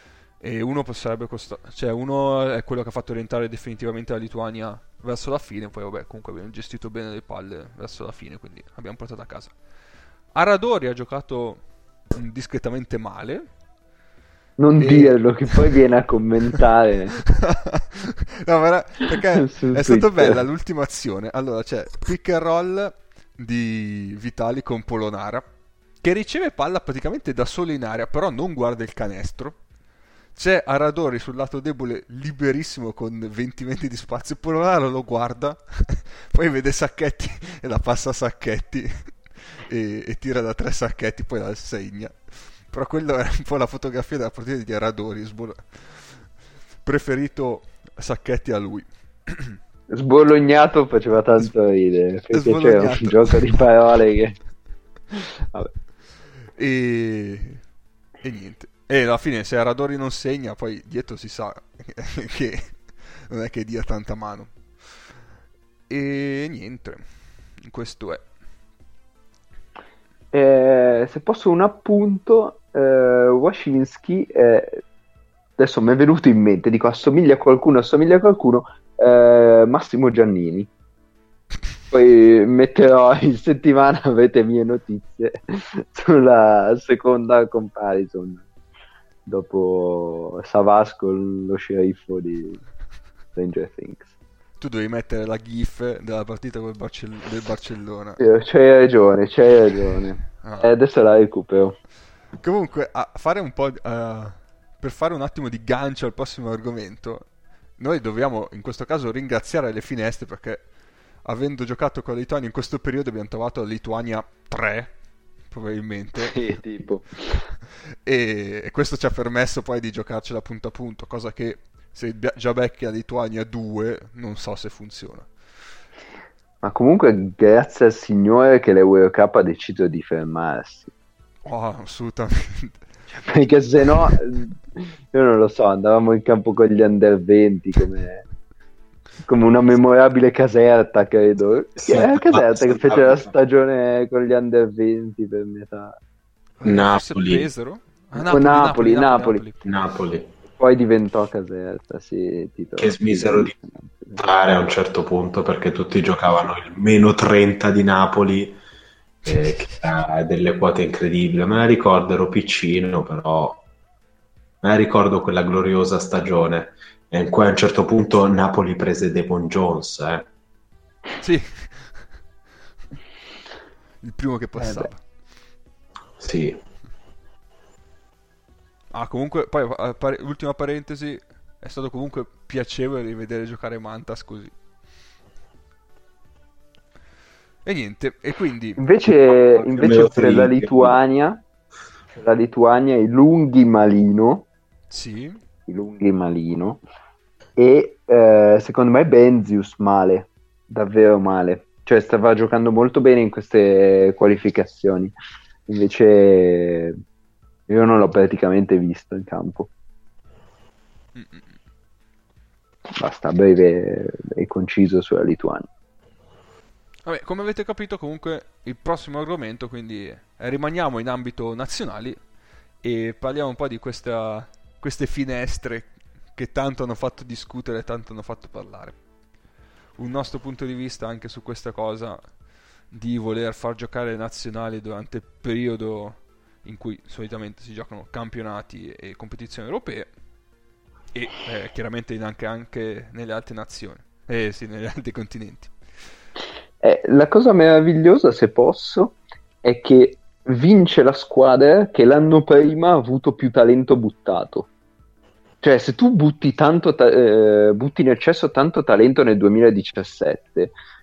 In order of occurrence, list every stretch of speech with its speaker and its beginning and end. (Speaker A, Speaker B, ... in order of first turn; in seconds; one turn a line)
Speaker A: 0.4-9.6
Speaker A: 10.3-13.5
Speaker B: 14.6-17.2
Speaker A: 14.8-15.7
Speaker A: 17.3-25.4
Speaker B: 19.3-20.4
Speaker A: 26.0-29.6
Speaker A: 30.3-49.6
Speaker B: 49.9-54.4
Speaker A: 52.3-53.6
Speaker A: 56.5-57.6
Speaker A: 58.2-65.2
Speaker A: 65.9-68.3
Speaker B: 70.3-74.8
Speaker B: 75.6-80.7
Speaker B: 81.9-88.4
Speaker B: 89.2-92.6
Speaker B: 93.3-94.1
Speaker A: 94.6-98.2
Speaker B: 98.2-101.8
Speaker A: 100.4-100.7
Speaker A: 102.4-110.7
Speaker A: 111.2-116.6
Speaker B: 116.2-117.4
Speaker A: 117.6-125.3
Speaker B: 126.6-130.9
Speaker A: 131.4-132.8
Speaker B: 133.1-138.2
Speaker B: 139.2-146.0
Speaker C: 141.8-143.3
Speaker A: 146.6-149.6
Speaker C: 146.6-147.5
Speaker B: 148.1-149.4
Speaker C: 149.6-150.3
Speaker B: 150.6-154.2
Speaker C: 152.8-153.5
Speaker C: 154.2-158.6
Speaker C: 159.2-163.6
Speaker C: 164.6-170.3
Speaker A: 171.2-172.2
Speaker A: 174.0-175.1
Speaker B: 174.6-174.9
Speaker C: 176.2-176.6
Speaker A: 178.9-184.5
Speaker A: 187.6-188.8
Speaker B: 188.8-191.4
Speaker C: 189.7-191.0
Speaker B: 192.2-194.5
Speaker A: 194.9-195.4
Speaker B: 195.7-196.8
Speaker B: 197.6-205.1
Speaker B: 205.7-207.0
Speaker B: 207.7-209.7
Speaker A: 211.1-211.6
Speaker B: 213.0-215.7
Speaker A: 217.1-222.2
Speaker A: 222.8-229.0
Speaker A: 230.0-240.1
Speaker A: 241.1-245.7
Speaker B: 246.8-254.7
Speaker B: 255.6-260.7